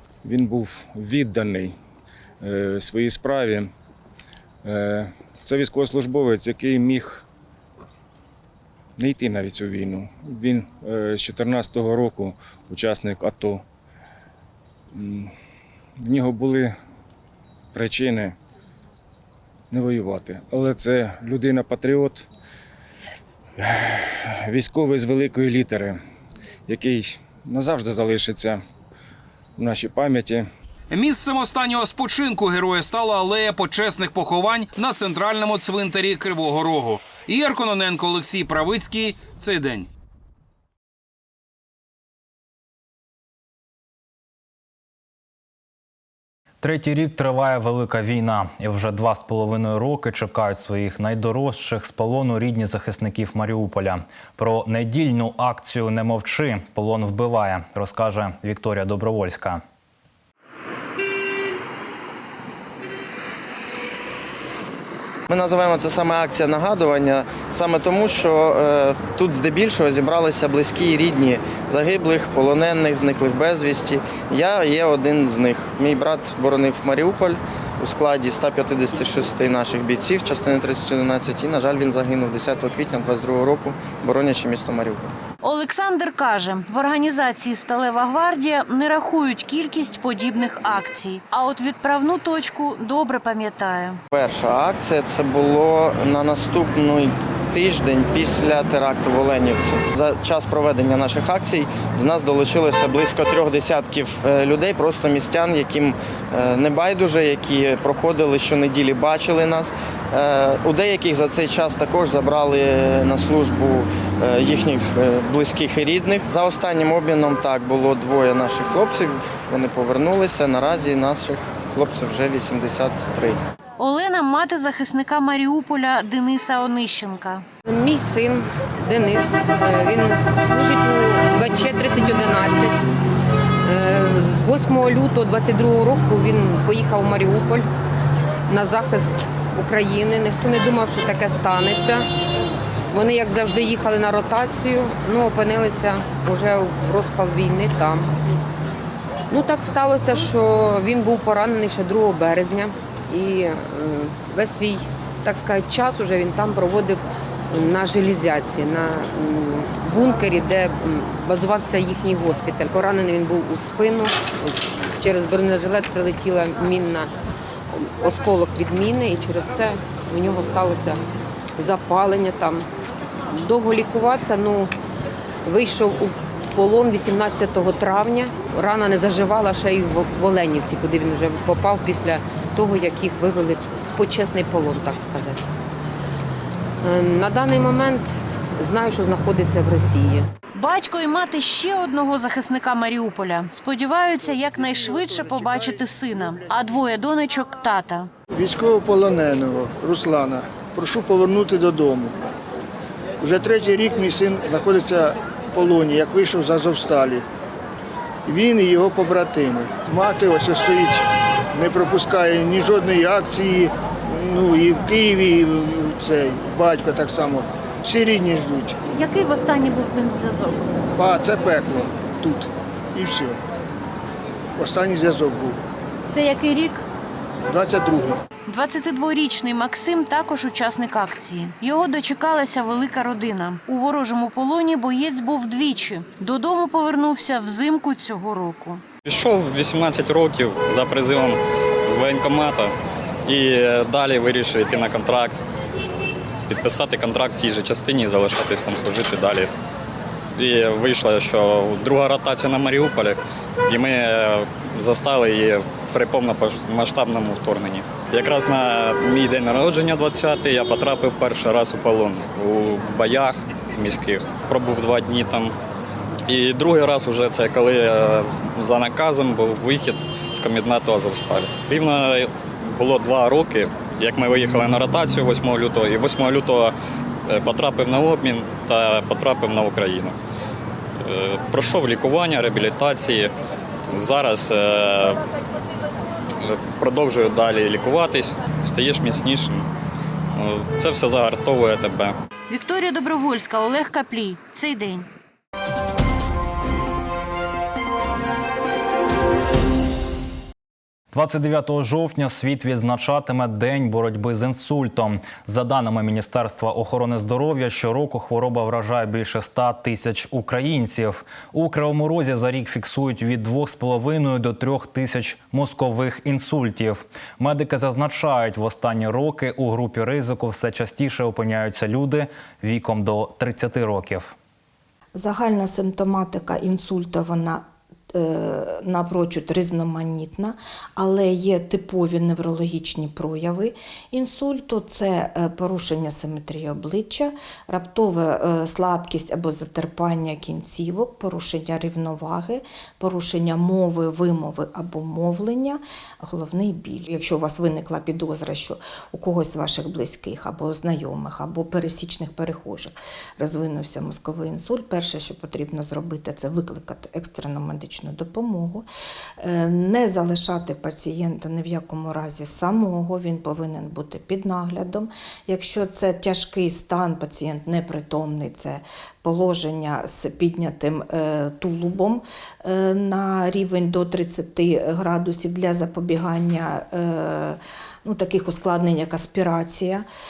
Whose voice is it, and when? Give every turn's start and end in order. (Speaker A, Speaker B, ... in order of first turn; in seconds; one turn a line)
Speaker A: 0.2-1.8
Speaker A: 2.4-3.7
Speaker A: 4.6-7.2
Speaker A: 9.0-13.6
Speaker A: 14.9-15.3
Speaker A: 16.0-16.7
Speaker A: 17.7-18.4
Speaker A: 19.7-22.3
Speaker A: 23.6-26.0
Speaker A: 26.7-28.6
Speaker A: 29.6-30.5
Speaker B: 30.9-39.9
Speaker C: 46.6-59.6
Speaker D: 65.3-85.1
Speaker E: 85.4-94.0
Speaker D: 94.1-123.4
Speaker E: 123.8-127.5
Speaker F: 127.7-132.9
Speaker F: 133.6-137.7
Speaker F: 138.5-142.1
Speaker F: 142.9-148.1
Speaker F: 149.3-167.1
Speaker F: 167.7-171.0
Speaker F: 171.6-172.7
Speaker F: 173.3-174.7
Speaker F: 175.5-185.4
Speaker F: 186.8-190.3
Speaker E: 190.5-198.1
Speaker G: 198.3-202.2
Speaker G: 203.2-207.2
Speaker G: 208.3-218.8
Speaker E: 218.9-220.8
Speaker G: 221.0-223.4
Speaker G: 224.6-225.6
Speaker E: 226.1-226.8
Speaker G: 227.5-228.2
Speaker E: 228.5-238.8
Speaker H: 239.1-242.7
Speaker H: 243.3-245.4
Speaker H: 246.5-249.5
Speaker H: 250.4-265.6
Speaker H: 266.3-276.7
Speaker H: 277.3-280.1
Speaker H: 281.0-283.3
Speaker H: 283.9-285.2
Speaker H: 286.4-289.7
Speaker H: 290.3-292.2
Speaker E: 292.5-295.1
Speaker C: 301.1-324.4
Speaker I: 325.1-358.9
Speaker I: 359.4-380.1